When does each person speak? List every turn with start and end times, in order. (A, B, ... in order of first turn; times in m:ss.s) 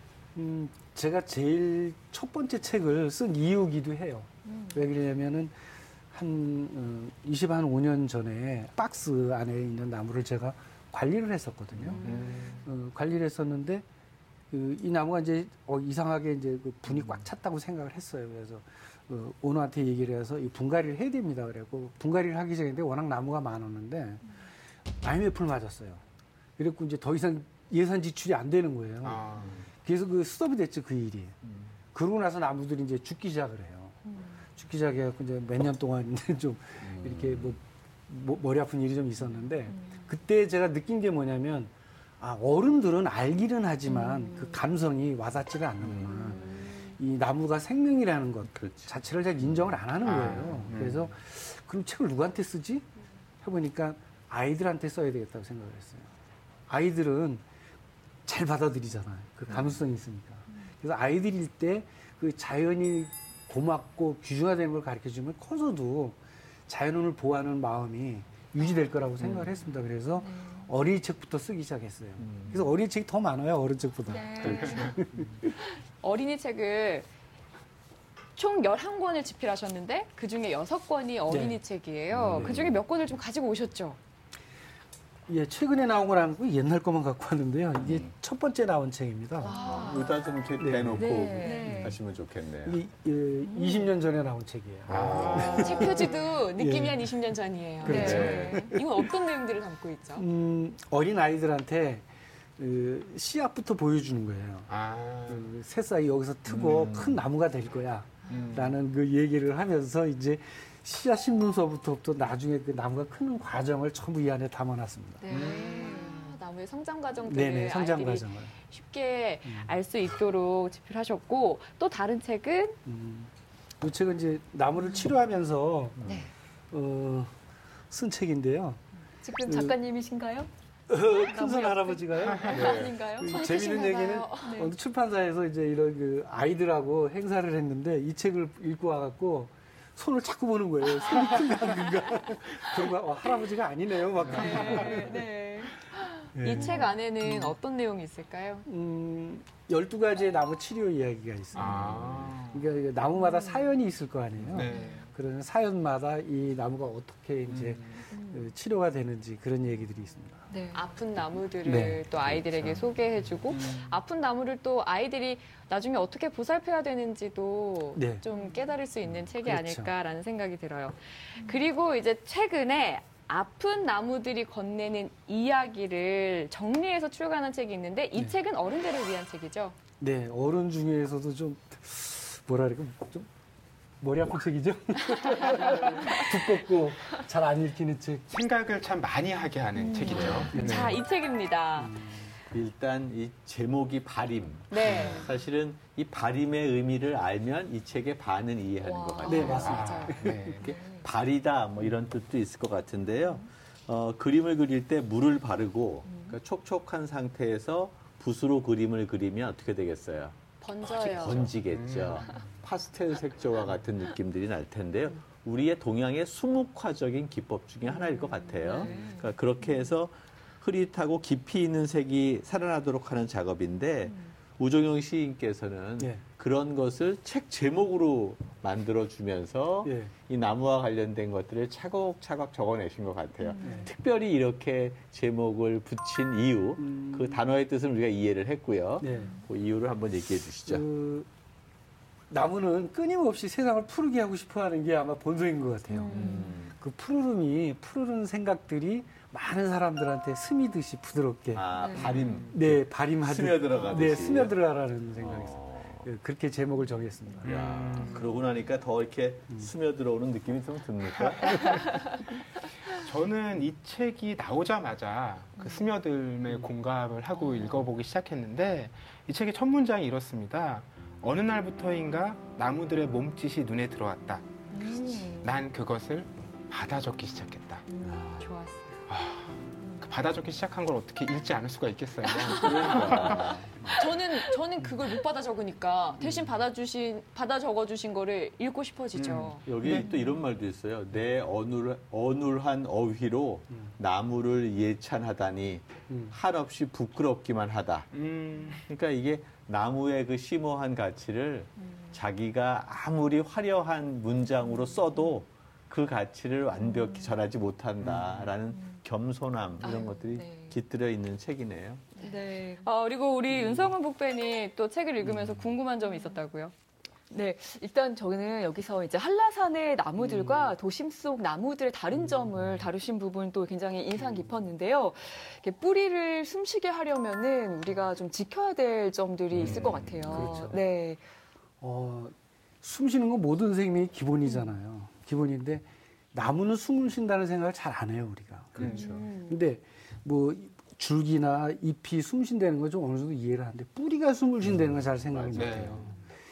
0:00.4-0:05.5 A
0:06.1-0:13.8 A
0:11.8-0:12.1 B
0:12.0-0:12.6 C
0:14.5-0:24.4 A
0:25.0-0:26.0 A
0:26.6-0:31.4 A
0:29.0-0:29.6 C
0:31.9-0:52.9 A
0:36.8-0:37.5 B
0:45.8-0:46.7 B
0:48.5-0:49.0 B
0:50.0-0:51.1 C
0:53.4-0:56.1 A
0:56.7-0:57.4 A
0:58.3-1:15.5 A
1:09.2-1:09.5 B
1:10.3-1:10.6 D
1:12.2-1:12.7 B
1:14.1-1:14.6 D
1:14.6-1:14.9 C
1:15.8-1:17.1 E
1:18.4-1:24.0 E
1:21.3-1:21.6 A
1:22.1-1:22.8 B
1:25.3-1:29.6 A
1:27.8-1:28.1 B
1:29.4-1:30.1 E
1:29.5-1:30.1 D
1:29.5-1:32.8 B
1:30.6-1:32.0 A
1:31.0-1:32.0 D
1:31.0-1:31.8 E
1:32.6-1:37.1 A
1:34.9-1:35.8 C
1:35.1-1:35.7 B
1:35.4-1:40.3 E
1:37.8-1:39.1 A
1:37.9-1:38.7 D
1:37.9-1:38.6 B
1:40.2-1:42.1 A
1:42.6-1:44.7 A
1:44.7-1:45.5 C
1:45.3-1:55.3 A
1:46.5-1:47.2 B
1:46.5-1:46.9 C
1:48.3-1:48.8 C
1:55.2-1:56.2 D
1:55.3-1:55.8 C
1:55.3-2:02.8 E
1:57.2-1:58.5 A
1:59.4-1:59.8 A
2:02.8-2:06.0 A
2:06.0-2:06.3 E
2:06.7-2:07.4 A
2:07.9-2:08.8 A
2:09.2-2:10.5 D
2:09.4-2:09.9 A
2:10.9-2:25.3 A
2:11.2-2:13.4 D
2:12.5-2:13.0 B
2:13.2-2:14.6 E
2:14.4-2:14.7 D
2:24.3-2:25.1 C
2:24.3-2:25.3 E
2:25.1-2:25.7 D
2:26.0-2:28.7 E
2:26.3-2:27.6 A
2:28.7-2:40.6 A
2:31.6-2:32.6 C
2:31.8-2:32.3 B
2:34.4-2:34.6 B
2:34.5-2:35.1 C
2:37.5-2:38.0 C
2:40.5-2:40.9 D
2:40.7-2:59.8 E
2:41.6-2:42.1 A
2:42.3-2:42.6 B
2:43.5-2:44.0 C
2:48.0-2:48.2 A
2:49.4-2:49.9 A
3:00.0-3:03.3 A
3:04.0-3:08.3 A
3:05.2-3:06.2 E
3:08.3-3:11.0 C
3:09.8-3:10.4 D
3:10.0-3:12.2 E
3:10.2-3:10.5 B
3:10.5-3:11.0 A
3:11.8-3:12.3 A
3:12.5-3:19.9 B
3:14.7-3:15.3 E
3:14.8-3:15.3 C
3:18.9-3:19.5 D
3:19.2-3:20.5 A
3:19.3-3:20.2 E
3:19.5-3:20.9 C
3:20.6-3:21.0 D
3:20.6-4:00.8 B
3:30.6-3:31.6 E
3:31.4-3:32.5 C
3:38.6-3:39.0 E
3:38.6-3:39.2 D
3:46.0-3:46.3 A
3:49.8-3:50.1 A
3:53.6-3:53.9 A
3:56.8-3:57.4 A
3:59.0-3:59.4 A
4:00.7-4:01.3 A
4:02.3-4:11.7 A
4:06.1-4:06.7 B
4:11.5-4:14.6 B
4:11.8-4:12.1 D
4:11.9-4:12.6 C
4:12.5-4:17.8 A
4:15.2-4:16.0 B
4:17.4-4:21.8 B
4:17.5-4:18.3 C
4:21.1-4:22.1 C
4:22.9-4:37.9 C
4:34.7-4:35.5 E
4:38.0-4:38.5 B
4:38.1-4:39.0 E
4:39.1-4:44.0 C
4:42.3-4:49.7 E
4:42.5-4:44.1 B
4:49.1-4:50.1 C
4:49.6-4:58.1 B
4:53.7-4:54.0 A
4:56.1-4:56.4 A
4:58.1-4:58.8 C
4:58.8-5:12.2 B
5:06.9-5:07.2 D
5:08.0-5:08.6 C
5:09.8-5:10.8 D
5:12.2-5:16.7 E
5:12.2-5:12.8 D
5:15.3-5:15.6 B
5:17.3-5:31.2 D
5:20.2-5:20.7 E
5:20.3-5:20.7 C
5:24.2-5:24.5 A
5:29.5-5:30.4 B
5:29.6-5:30.1 C
5:29.8-5:30.6 E
5:30.2-5:30.8 A
5:31.8-5:46.1 A
5:38.8-5:39.3 B
5:38.8-5:39.6 E
5:44.7-5:46.2 B
5:45.5-5:46.1 C